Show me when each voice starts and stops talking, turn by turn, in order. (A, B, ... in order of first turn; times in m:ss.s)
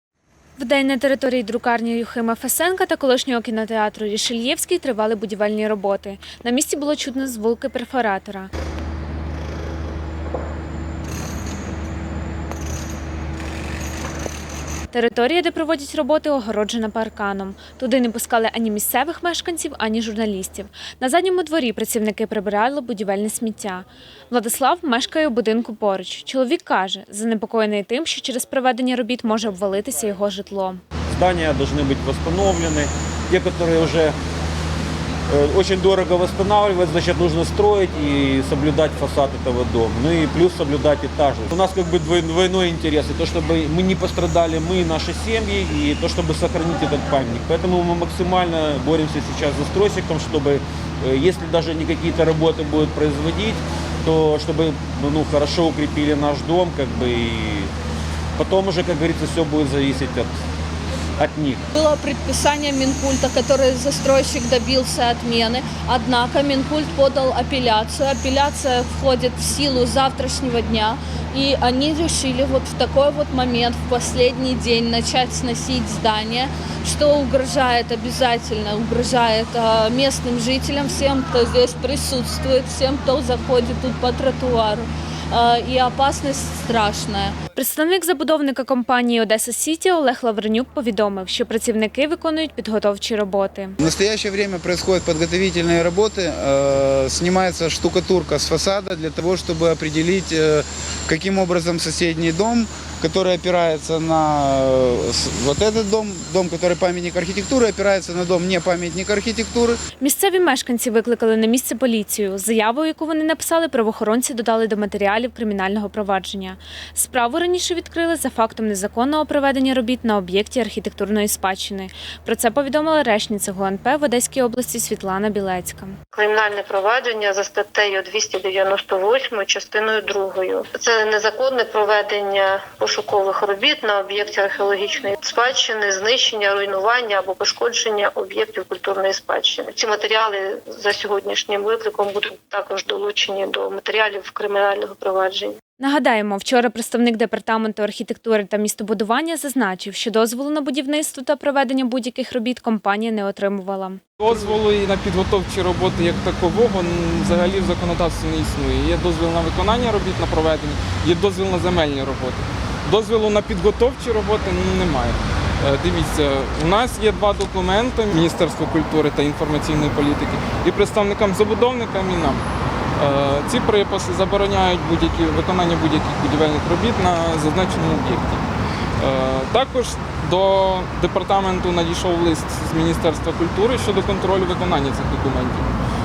0:00.6-0:08.5 A
0:14.9-0:30.8 A
0:31.1-0:34.2 B
0:35.3-0:57.7 B
0:58.4-1:00.3 B
1:01.2-1:01.6 B
1:01.8-1:27.4 C
1:27.5-1:33.7 A
1:33.8-1:49.8 D
1:50.0-2:06.0 A
2:06.1-2:25.6 E
2:25.8-2:34.0 A
2:34.2-2:52.4 F
2:53.0-2:58.4 F
2:59.0-3:05.7 F